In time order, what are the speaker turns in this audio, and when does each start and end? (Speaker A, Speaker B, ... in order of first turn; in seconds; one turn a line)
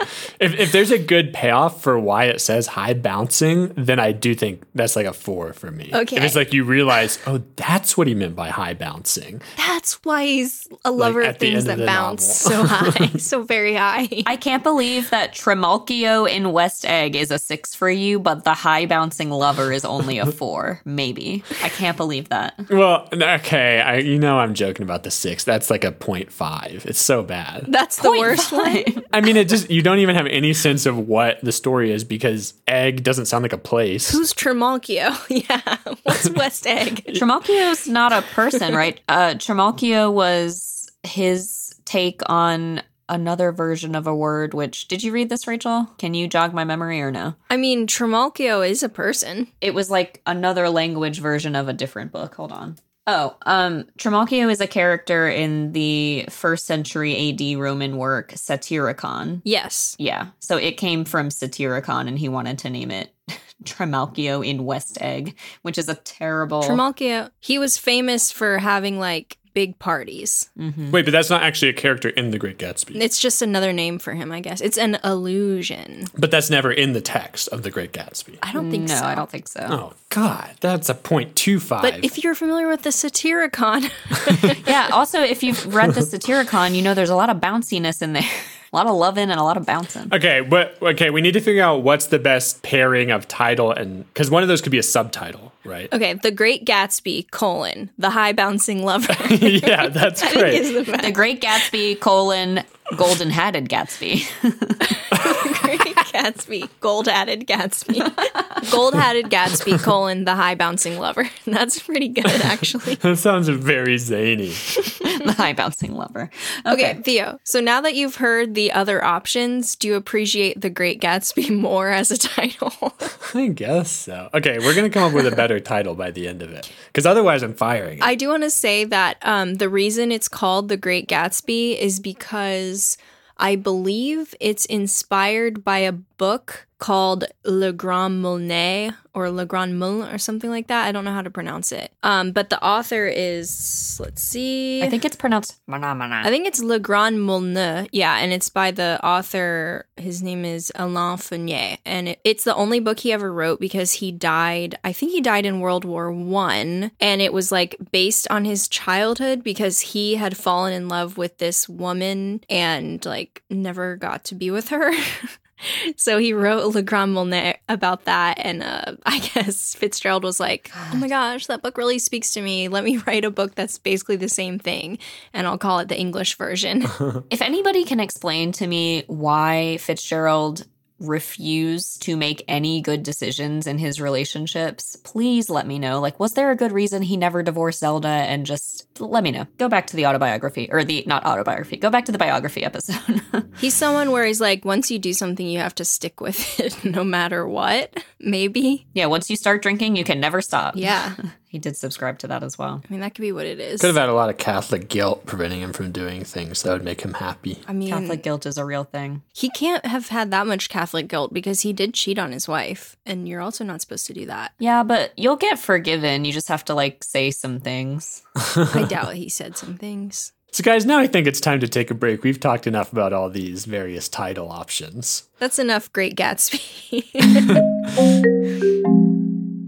Speaker A: 0.4-9.4
Speaker B: 5.9-6.4
Speaker B: 9.6-14.3
Speaker A: 11.0-13.1
Speaker C: 14.2-22.7
Speaker A: 22.7-27.7
Speaker B: 27.7-28.9
Speaker C: 28.0-29.0
Speaker A: 29.1-34.2
Speaker B: 34.1-37.2
Speaker C: 37.1-47.4
Speaker B: 47.5-49.5
Speaker C: 49.6-59.4
Speaker B: 59.4-60.0
Speaker C: 60.0-66.8
Speaker B: 66.6-70.5
Speaker C: 70.6-71.0
Speaker A: 70.9-73.0
Speaker B: 73.0-76.1
Speaker A: 76.1-78.4
Speaker B: 78.4-79.2
Speaker C: 78.5-79.8
Speaker A: 79.7-82.1
Speaker B: 81.8-84.8
Speaker C: 84.6-90.1
Speaker A: 90.1-95.9
Speaker B: 95.9-101.3
Speaker A: 99.1-100.7
Speaker C: 101.0-105.0
Speaker B: 104.9-113.0
Speaker A: 105.1-105.5
Speaker A: 113.0-114.7
Speaker C: 115.0-117.0
Speaker B: 116.7-123.1
Speaker A: 123.2-128.1
Speaker B: 125.0-125.3
Speaker B: 128.0-144.9
Speaker C: 144.8-146.3
Speaker B: 146.2-177.0
Speaker C: 170.8-171.0
Speaker C: 177.3-193.5
Speaker B: 193.6-198.8
Speaker C: 198.9-202.8
Speaker B: 200.8-201.2
Speaker B: 202.9-203.9
Speaker A: 203.8-207.6
Speaker B: 207.7-208.2
Speaker C: 207.8-209.2
Speaker B: 209.3-214.5
Speaker C: 214.6-218.2
Speaker B: 218.7-220.3
Speaker A: 220.5-225.2
Speaker B: 225.4-227.6
Speaker A: 227.3-227.7